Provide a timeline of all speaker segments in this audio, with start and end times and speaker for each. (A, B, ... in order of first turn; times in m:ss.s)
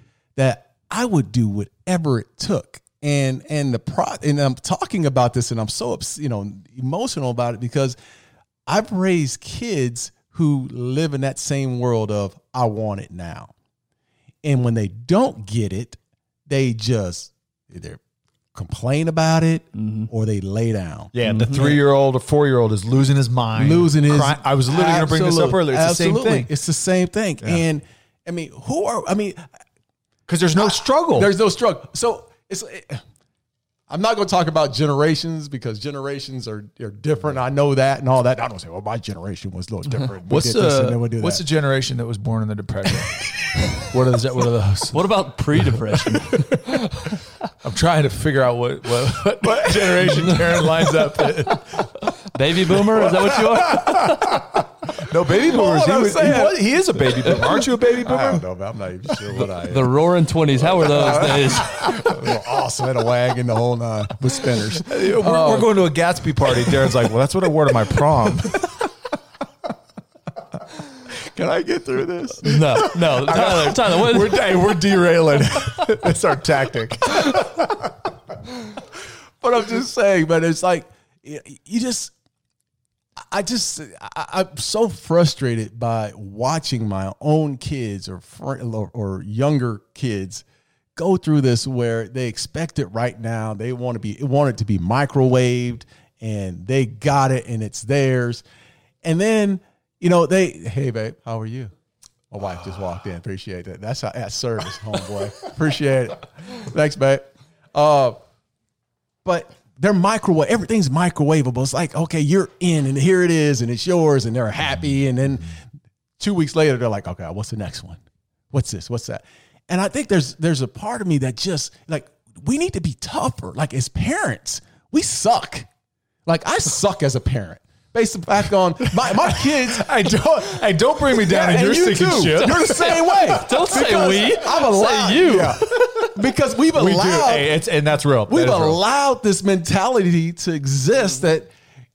0:00.4-0:08.0 A
0:08.6-0:13.5 A
0:14.4-0:18.0 A
0:18.5-0:21.8 A
0:19.7-0:20.1 B
0:21.1-0:26.5 C
0:21.2-0:21.6 B
0:23.6-0:29.5 A
0:30.3-0:31.3 C
0:30.6-0:33.0 A
0:33.9-0:41.4 A
0:40.2-0:45.2 C
0:44.9-0:46.5 B
0:47.6-0:51.9 C
0:49.4-0:51.5 A
0:52.3-0:54.3 B
0:53.0-0:53.9 A
0:53.3-0:58.4 C
0:55.3-0:59.9 A
0:59.1-0:59.8 C
0:59.3-1:01.8 B
1:00.7-1:05.7 A
1:01.0-1:02.0 C
1:04.8-1:08.8 C
1:06.5-1:07.0 A
1:07.7-1:08.8 A
1:11.0-1:16.1 A
1:12.4-1:14.4 B
1:13.3-1:17.8 C
1:19.4-1:22.1 A
1:23.3-1:30.4 A
1:31.0-1:38.4 A
1:39.0-1:41.7 A
1:42.3-1:48.2 A
1:49.2-1:55.6 A
1:56.2-1:58.0 A
1:58.5-2:05.7 A
2:06.2-2:09.9 A
2:08.9-2:13.4 C
2:11.1-2:17.5 A
2:12.4-2:15.7 B
2:15.7-2:16.1 C
2:16.7-2:18.8 C
2:18.3-2:21.5 A